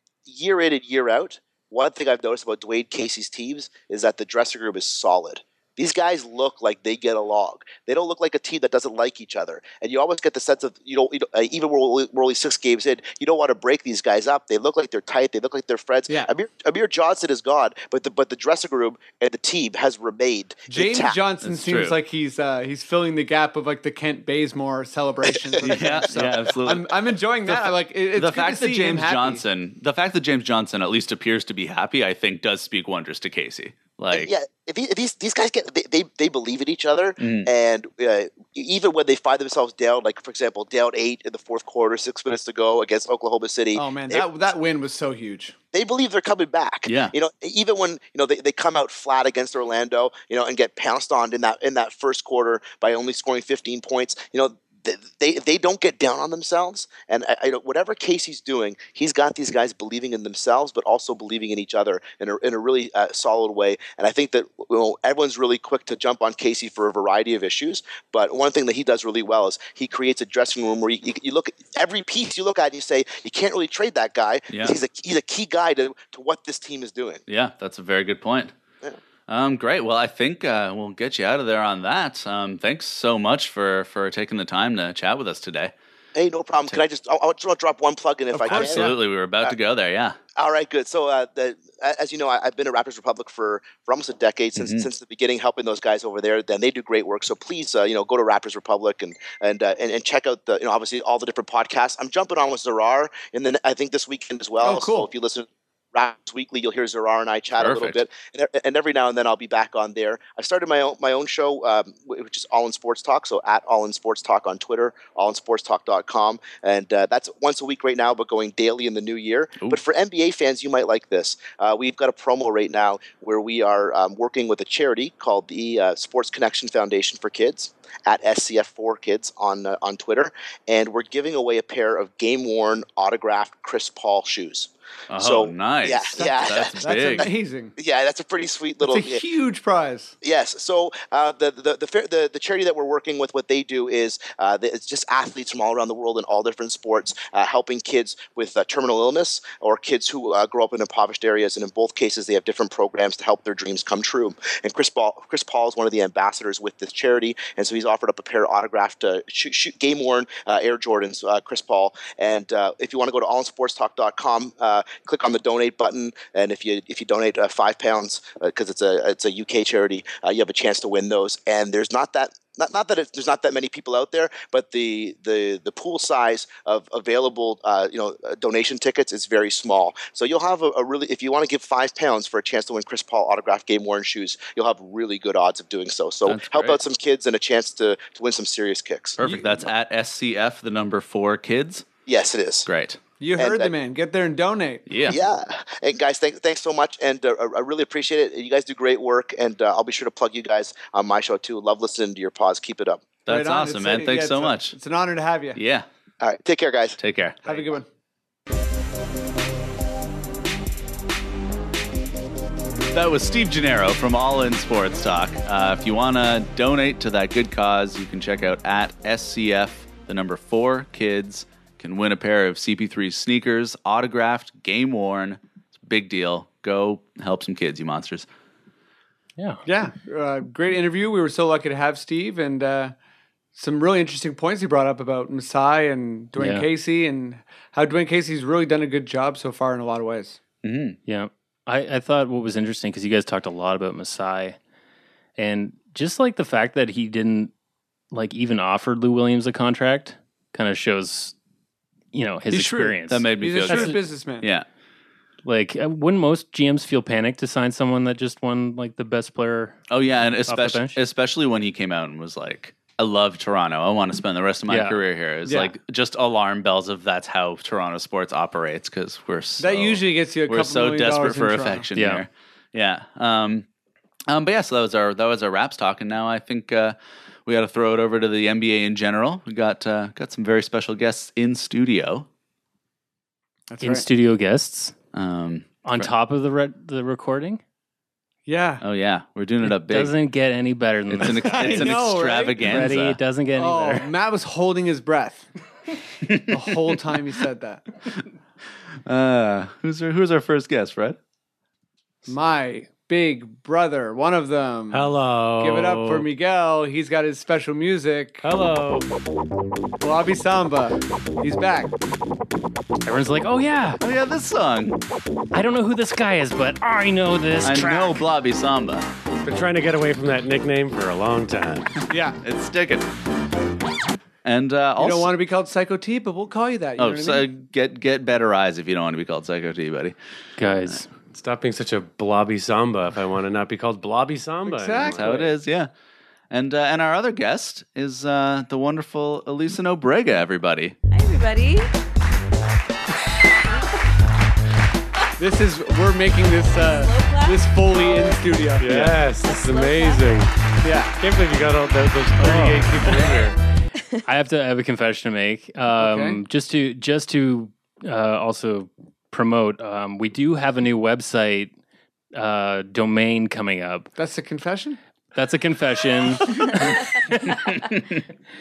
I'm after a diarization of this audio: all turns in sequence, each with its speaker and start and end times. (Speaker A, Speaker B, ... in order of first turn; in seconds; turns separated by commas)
Speaker A: 0.3-21.2, Speaker B: 20.7-29.4, Speaker C: 21.4-22.0, Speaker C: 25.6-34.3, Speaker A: 25.7-26.0, Speaker A: 34.1-44.3, Speaker C: 37.2-37.5, Speaker B: 43.7-45.6, Speaker A: 45.7-77.2, Speaker C: 46.9-47.1, Speaker C: 74.5-74.8, Speaker C: 77.3-78.5, Speaker C: 79.3-85.7, Speaker A: 86.1-89.5, Speaker B: 88.3-89.0, Speaker C: 88.5-90.2, Speaker A: 90.4-139.2, Speaker C: 94.6-94.9, Speaker B: 104.6-105.1, Speaker C: 107.6-108.0, Speaker C: 135.1-137.3, Speaker B: 136.2-137.8, Speaker B: 138.8-140.1, Speaker A: 140.2-189.2, Speaker C: 186.3-186.8, Speaker C: 189.2-191.8, Speaker B: 189.2-189.6, Speaker A: 192.1-192.7, Speaker C: 192.7-193.0, Speaker B: 193.2-194.9, Speaker A: 193.4-193.7, Speaker C: 194.9-195.2, Speaker A: 195.1-203.0, Speaker C: 203.3-204.8, Speaker B: 203.3-205.6, Speaker C: 205.6-205.9, Speaker A: 206.2-207.0, Speaker C: 207.0-207.7, Speaker B: 207.4-207.9, Speaker C: 212.9-228.3, Speaker D: 229.4-229.6, Speaker B: 229.7-232.9, Speaker B: 233.6-240.4, Speaker D: 236.4-236.7, Speaker C: 240.6-241.0, Speaker D: 241.1-244.6, Speaker D: 245.4-247.5, Speaker D: 248.1-251.3, Speaker D: 252.1-254.0, Speaker B: 252.5-254.5, Speaker C: 253.1-254.7, Speaker D: 255.4-259.8, Speaker C: 259.9-273.6, Speaker D: 260.5-261.0, Speaker D: 264.7-265.0, Speaker B: 265.5-265.7, Speaker B: 269.6-271.9, Speaker D: 272.0-272.2, Speaker C: 274.3-282.3, Speaker B: 283.7-284.1, Speaker D: 283.8-284.9, Speaker C: 285.1-286.1, Speaker D: 285.9-287.6, Speaker B: 288.5-288.8, Speaker C: 288.8-290.1, Speaker D: 289.6-294.1, Speaker C: 291.1-293.2, Speaker B: 291.4-292.9, Speaker B: 293.6-295.5, Speaker C: 296.2-296.6, Speaker B: 296.5-297.8, Speaker C: 299.1-301.2, Speaker B: 302.3-308.5, Speaker E: 304.9-306.3, Speaker E: 308.4-309.1, Speaker B: 310.0-311.9, Speaker D: 313.1-314.0, Speaker C: 314.0-315.0, Speaker D: 315.5-318.2, Speaker C: 317.6-319.1, Speaker E: 319.4-322.0, Speaker B: 322.1-322.4, Speaker C: 322.4-323.1, Speaker C: 324.4-325.3, Speaker B: 325.0-327.5, Speaker C: 327.0-330.1, Speaker D: 330.6-331.1, Speaker E: 331.3-335.5, Speaker B: 334.6-335.5, Speaker C: 335.1-335.9, Speaker C: 336.5-341.0, Speaker F: 341.1-341.9, Speaker B: 345.4-349.2, Speaker F: 346.7-348.4, Speaker E: 348.8-350.5, Speaker F: 349.4-350.5, Speaker B: 350.8-351.1, Speaker E: 351.2-353.6, Speaker D: 352.4-353.0, Speaker B: 352.9-353.4, Speaker D: 354.3-361.7, Speaker B: 356.0-356.4, Speaker D: 362.3-364.1, Speaker B: 364.2-365.0, Speaker D: 365.3-367.9